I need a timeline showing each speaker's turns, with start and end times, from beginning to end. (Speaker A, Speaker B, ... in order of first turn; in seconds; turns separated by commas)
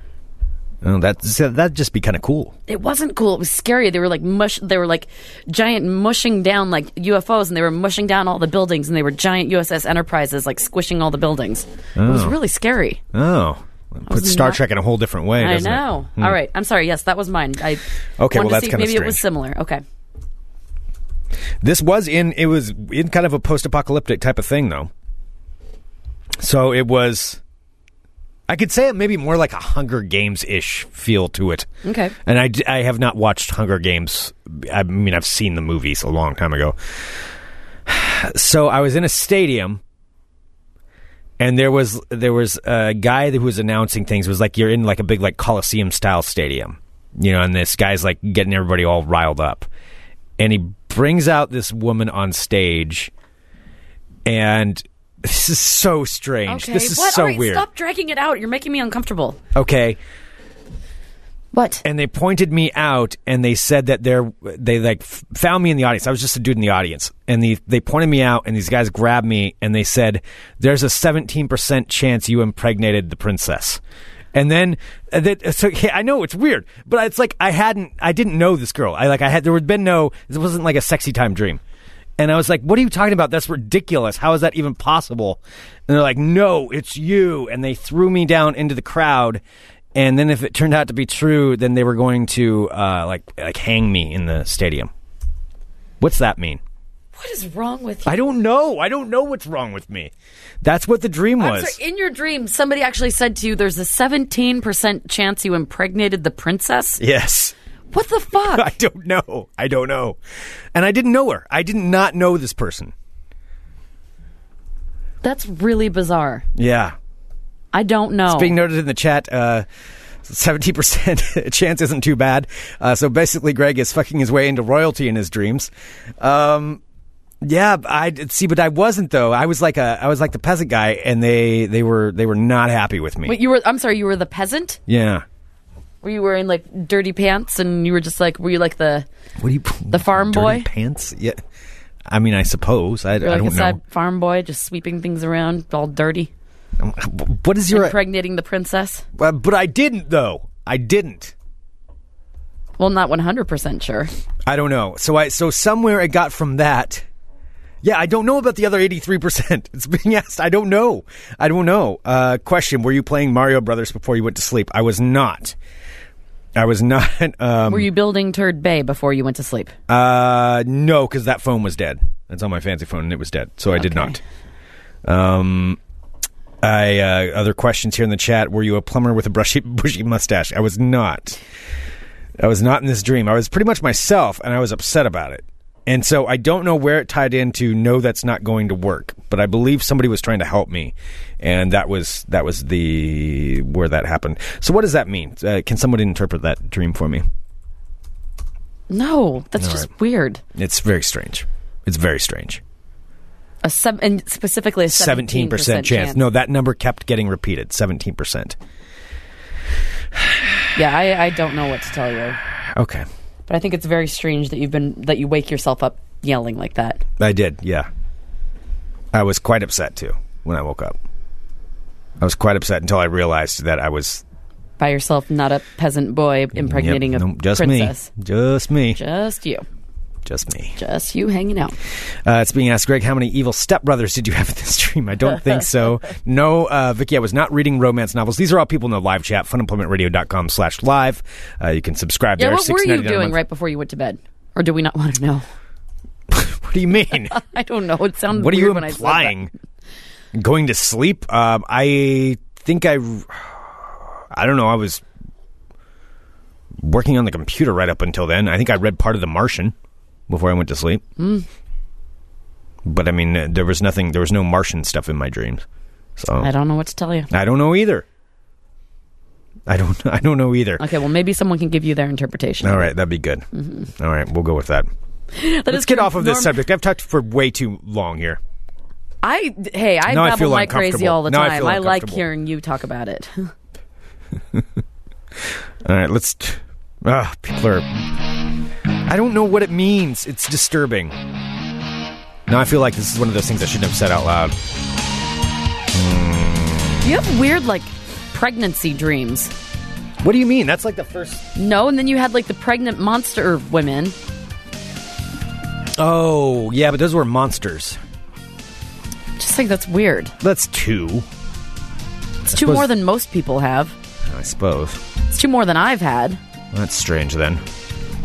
Speaker A: 0.8-2.5, Speaker B: 2.7-13.0, Speaker A: 12.0-12.4, Speaker A: 13.1-16.4, Speaker B: 14.1-14.6, Speaker B: 15.4-19.8, Speaker A: 18.2-19.2, Speaker A: 21.6-24.9, Speaker A: 26.4-27.4, Speaker A: 28.5-31.7, Speaker B: 31.8-32.1, Speaker A: 32.2-36.8, Speaker A: 37.9-39.8, Speaker A: 41.4-49.7, Speaker A: 50.4-53.1, Speaker A: 54.2-57.7, Speaker B: 56.5-59.4, Speaker A: 59.5-60.0, Speaker B: 61.5-61.9, Speaker A: 61.8-73.8, Speaker A: 74.3-81.6, Speaker A: 82.2-89.4, Speaker A: 90.0-94.9, Speaker A: 96.0-96.6, Speaker B: 97.2-98.2, Speaker A: 98.1-101.8, Speaker B: 101.4-107.0, Speaker A: 107.0-107.5, Speaker B: 107.9-108.7, Speaker A: 108.3-110.2, Speaker A: 110.7-112.9, Speaker B: 115.2-116.5, Speaker A: 116.6-117.0, Speaker B: 117.7-118.5, Speaker A: 118.3-119.7, Speaker A: 120.2-126.8, Speaker A: 127.4-133.4, Speaker B: 133.2-134.8, Speaker A: 134.9-135.2, Speaker B: 136.0-139.1, Speaker A: 139.4-141.4, Speaker B: 139.9-140.7, Speaker A: 142.1-143.8, Speaker B: 143.2-146.3, Speaker A: 146.8-148.0, Speaker B: 147.7-149.1, Speaker A: 149.2-151.3, Speaker B: 152.8-154.1, Speaker A: 154.5-157.0, Speaker A: 157.8-165.6, Speaker A: 166.6-167.9, Speaker B: 167.7-169.7, Speaker A: 169.9-174.2, Speaker B: 173.8-174.2, Speaker A: 175.1-175.8, Speaker A: 176.6-181.4, Speaker A: 182.4-197.2, Speaker B: 198.9-200.4, Speaker A: 199.6-199.9, Speaker A: 200.6-202.6, Speaker B: 203.6-206.2, Speaker A: 204.9-208.6, Speaker A: 210.2-210.7, Speaker B: 210.8-212.4, Speaker A: 212.8-213.1, Speaker B: 213.5-217.0, Speaker A: 217.2-217.9, Speaker A: 219.1-221.0, Speaker A: 222.2-224.2, Speaker B: 224.8-228.1, Speaker A: 226.6-229.0, Speaker B: 228.9-229.7, Speaker A: 230.3-230.8, Speaker B: 230.8-231.8, Speaker A: 232.2-243.4, Speaker B: 242.4-245.4, Speaker A: 246.3-247.4, Speaker B: 247.3-249.4, Speaker A: 248.3-249.5, Speaker A: 250.3-255.0, Speaker A: 256.8-259.7, Speaker A: 260.3-261.0, Speaker B: 261.2-261.5, Speaker A: 262.9-265.6, Speaker A: 266.2-266.5, Speaker B: 266.4-267.3, Speaker A: 267.3-268.1, Speaker A: 269.7-270.8, Speaker B: 270.8-272.9, Speaker A: 272.6-273.4, Speaker B: 273.5-273.9, Speaker A: 274.0-274.9, Speaker B: 275.3-276.6, Speaker A: 275.7-278.4, Speaker B: 279.2-283.5, Speaker A: 280.1-282.2, Speaker A: 285.8-288.0, Speaker A: 289.1-291.1, Speaker A: 292.5-294.6, Speaker A: 295.9-297.0, Speaker B: 297.0-299.5, Speaker A: 300.2-301.4, Speaker B: 301.6-304.1, Speaker A: 306.0-308.0, Speaker B: 309.4-310.3, Speaker A: 310.4-311.3, Speaker B: 312.4-313.9, Speaker A: 312.5-312.9, Speaker A: 314.3-315.0, Speaker B: 315.3-316.4, Speaker A: 316.7-317.6